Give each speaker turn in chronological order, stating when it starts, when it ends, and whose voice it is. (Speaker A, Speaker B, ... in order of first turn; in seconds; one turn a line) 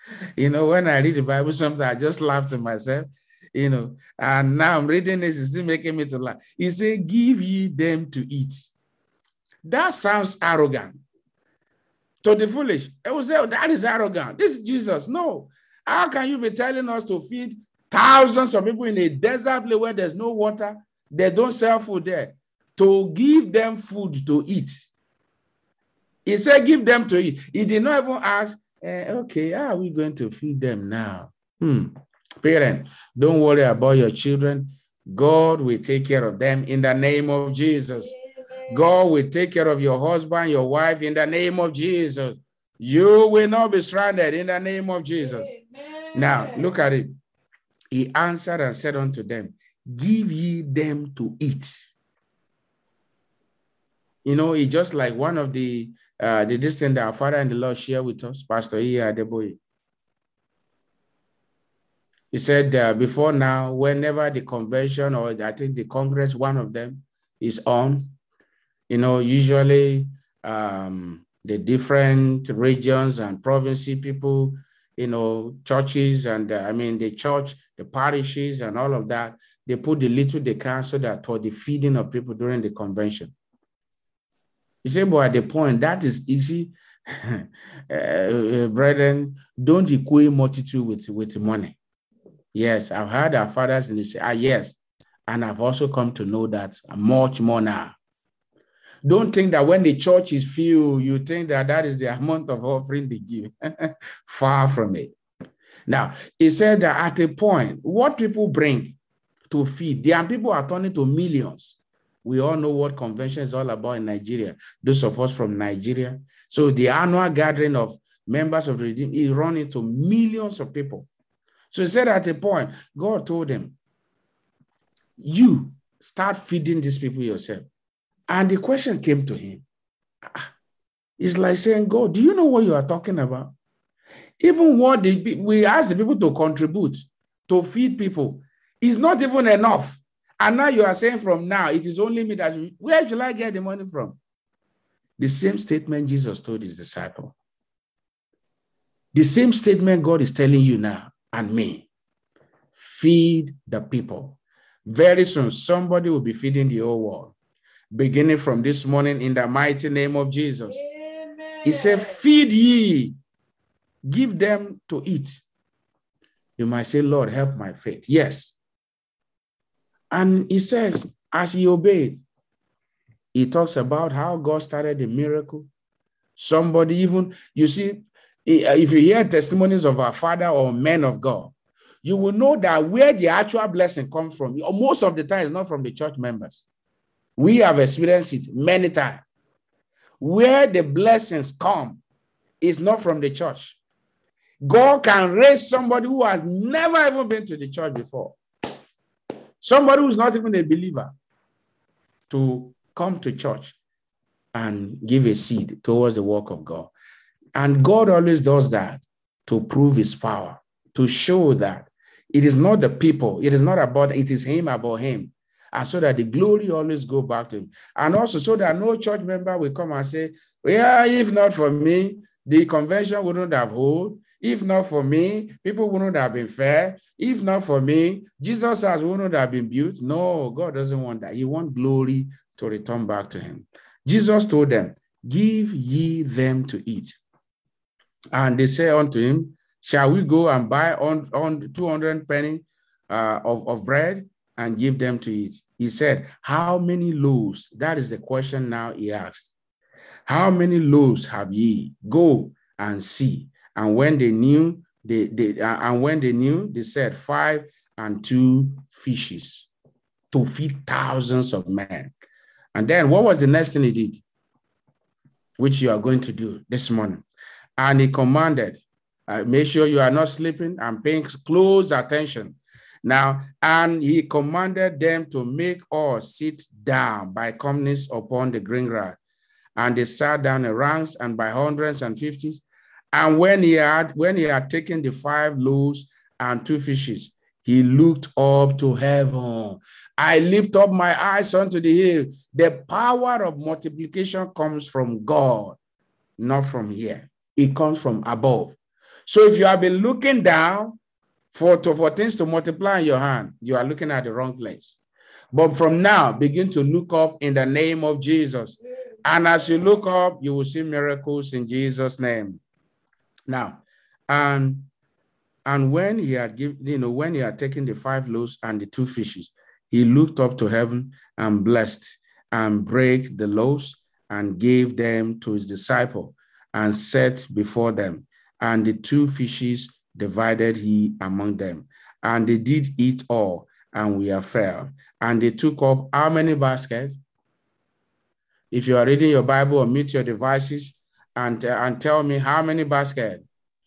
Speaker A: 0.4-8.7
Speaker A: 9.7-11.0
Speaker A: 12.2-24.9
Speaker A: 26.3-38.1
Speaker A: 38.7-45.5
Speaker A: 46.1-47.1
Speaker A: 47.9-51.9
Speaker A: 54.2-59.6
Speaker A: 62.3-68.2
Speaker A: 68.9-83.3
Speaker A: 84.8-91.8
Speaker A: 92.5-97.9
Speaker A: 99.0-105.2
Speaker A: 105.9-109.0
Speaker A: 109.5-121.1
Speaker A: 121.7-123.8
Speaker A: 125.2-127.7
Speaker A: 128.3-129.6
Speaker A: 131.2-133.5
Speaker A: 134.4-144.2
Speaker A: 145.2-147.3
Speaker A: 149.1-151.9
Speaker A: 152.7-157.3
Speaker A: 157.9-160.8
Speaker A: 161.6-163.1
Speaker A: 164.1-165.4
Speaker A: 166.6-168.6
Speaker A: 170.1-172.2
Speaker A: 173.3-175.7
Speaker A: 176.4-181.5
Speaker A: 182.0-186.6
Speaker A: 187.4-189.2
Speaker A: 190.2-192.0
Speaker A: 192.6-193.8
Speaker A: 194.6-198.4
Speaker A: 199.6-201.1
Speaker A: 202.3-203.8
Speaker A: 204.5-206.9
Speaker A: 207.6-237.2
Speaker A: 238.3-249.5
Speaker A: 250.3-259.7
Speaker A: 260.3-262.1
Speaker A: 262.7-264.2
Speaker A: 265.6-267.2
Speaker A: 267.8-279.2
Speaker A: 279.8-295.8
Speaker A: 296.4-301.0
Speaker A: 301.5-305.0
Speaker A: 305.5-312.6
Speaker A: 313.5-314.9
Speaker A: 315.6-337.2
Speaker A: 338.7-343.4